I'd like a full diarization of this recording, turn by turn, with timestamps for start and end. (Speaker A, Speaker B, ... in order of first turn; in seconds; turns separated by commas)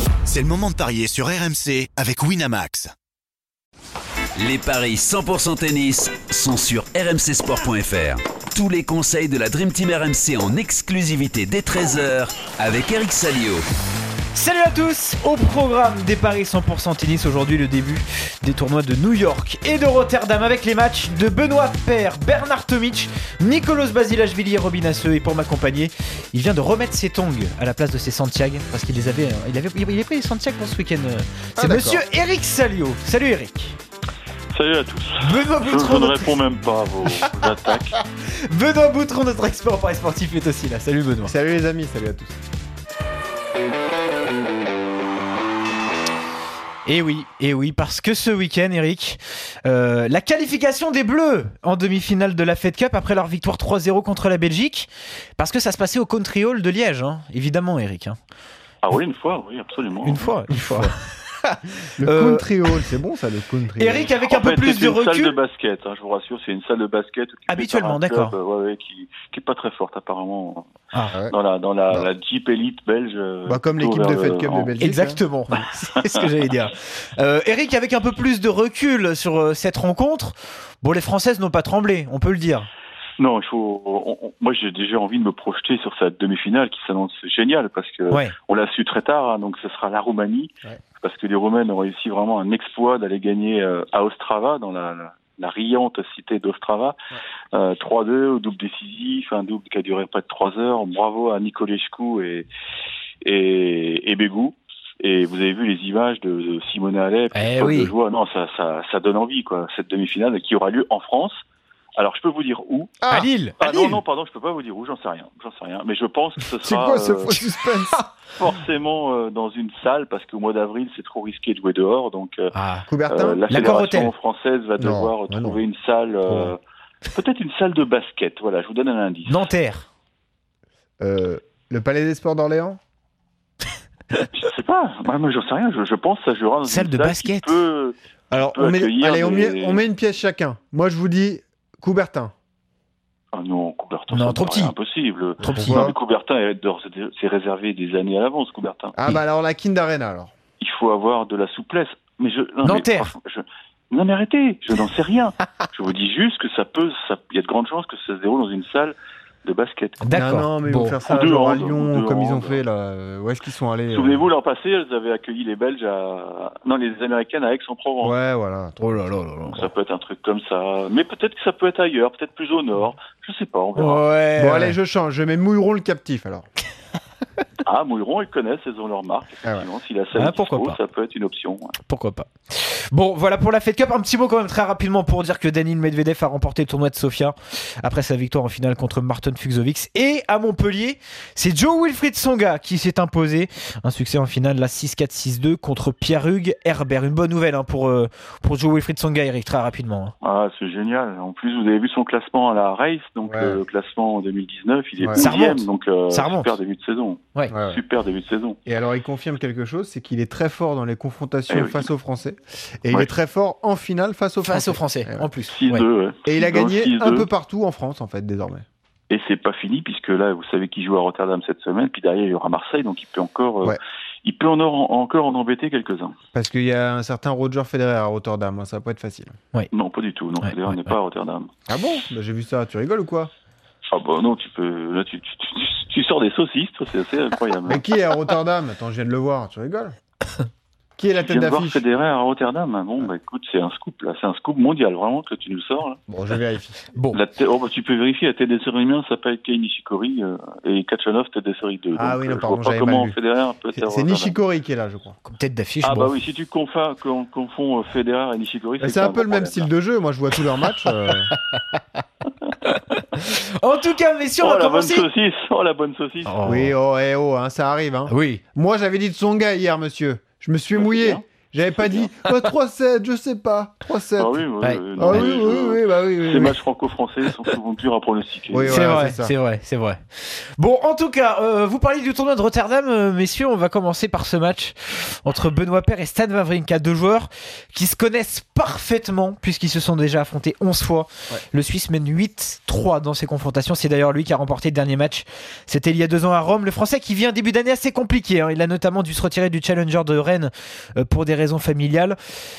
Speaker A: 0.3-2.9, Speaker B: 4.4-13.6, Speaker C: 14.3-33.8, Speaker D: 31.6-32.0, Speaker E: 34.5-38.0, Speaker C: 35.2-36.3, Speaker C: 38.3-41.3, Speaker D: 41.2-42.4, Speaker C: 46.8-58.2, Speaker E: 58.8-60.3, Speaker C: 60.0-62.8, Speaker D: 60.5-60.9, Speaker D: 61.9-64.1, Speaker C: 63.8-65.4, Speaker E: 64.2-70.7, Speaker C: 67.5-68.3, Speaker E: 71.3-74.7, Speaker D: 73.5-75.2, Speaker C: 74.8-82.7, Speaker E: 83.2-97.0, Speaker E: 97.5-102.5, Speaker E: 103.2-111.4, Speaker C: 107.3-107.9, Speaker E: 112.0-113.0, Speaker D: 113.0-113.3, Speaker C: 113.1-114.0, Speaker E: 113.6-117.3, Speaker D: 116.6-118.0, Speaker E: 118.3-122.5, Speaker C: 122.5-122.8, Speaker D: 122.9-123.4, Speaker E: 123.1-126.6, Speaker C: 123.5-124.1, Speaker D: 124.8-125.6, Speaker D: 126.2-126.5, Speaker E: 127.1-129.4, Speaker C: 129.3-129.9, Speaker D: 131.0-132.8, Speaker E: 134.3-137.9, Speaker C: 136.6-137.6, Speaker D: 138.3-142.3, Speaker E: 138.5-139.8, Speaker E: 143.3-148.9, Speaker C: 144.1-144.7, Speaker C: 145.4-145.9, Speaker D: 145.4-145.9, Speaker D: 148.9-150.3, Speaker E: 150.6-160.0, Speaker C: 152.6-153.1, Speaker C: 160.0-160.9, Speaker D: 160.1-164.3, Speaker E: 161.0-162.6, Speaker E: 163.9-168.1, Speaker D: 168.0-169.1, Speaker C: 168.8-169.7, Speaker E: 169.5-174.0, Speaker C: 173.8-174.8, Speaker D: 174.4-176.5, Speaker E: 177.6-181.7, Speaker C: 180.1-180.8, Speaker C: 181.8-200.1, Speaker E: 200.2-208.6, Speaker D: 203.2-203.6, Speaker D: 205.0-205.3, Speaker C: 205.2-206.5, Speaker D: 207.5-207.8, Speaker D: 208.7-215.3, Speaker E: 211.5-211.8, Speaker C: 214.4-215.8, Speaker E: 215.5-217.3, Speaker D: 216.2-218.6, Speaker E: 219.1-226.1, Speaker D: 226.3-229.3, Speaker E: 229.7-231.5, Speaker C: 230.4-230.9, Speaker D: 231.7-233.3, Speaker E: 233.9-237.8, Speaker D: 237.6-239.9, Speaker D: 241.0-241.8, Speaker E: 241.2-246.0, Speaker D: 246.1-246.8, Speaker C: 246.9-247.2, Speaker E: 247.1-254.3, Speaker D: 251.9-253.2, Speaker D: 253.8-255.2, Speaker C: 255.2-256.1, Speaker E: 255.8-259.7, Speaker D: 258.8-261.3, Speaker C: 262.6-265.1, Speaker E: 264.4-266.3, Speaker C: 266.2-266.7, Speaker D: 266.4-274.4, Speaker C: 268.1-268.4, Speaker E: 270.7-271.2, Speaker E: 271.8-272.1, Speaker E: 274.2-278.9, Speaker C: 274.6-275.3, Speaker D: 274.9-276.6, Speaker D: 278.5-279.3, Speaker C: 278.7-302.2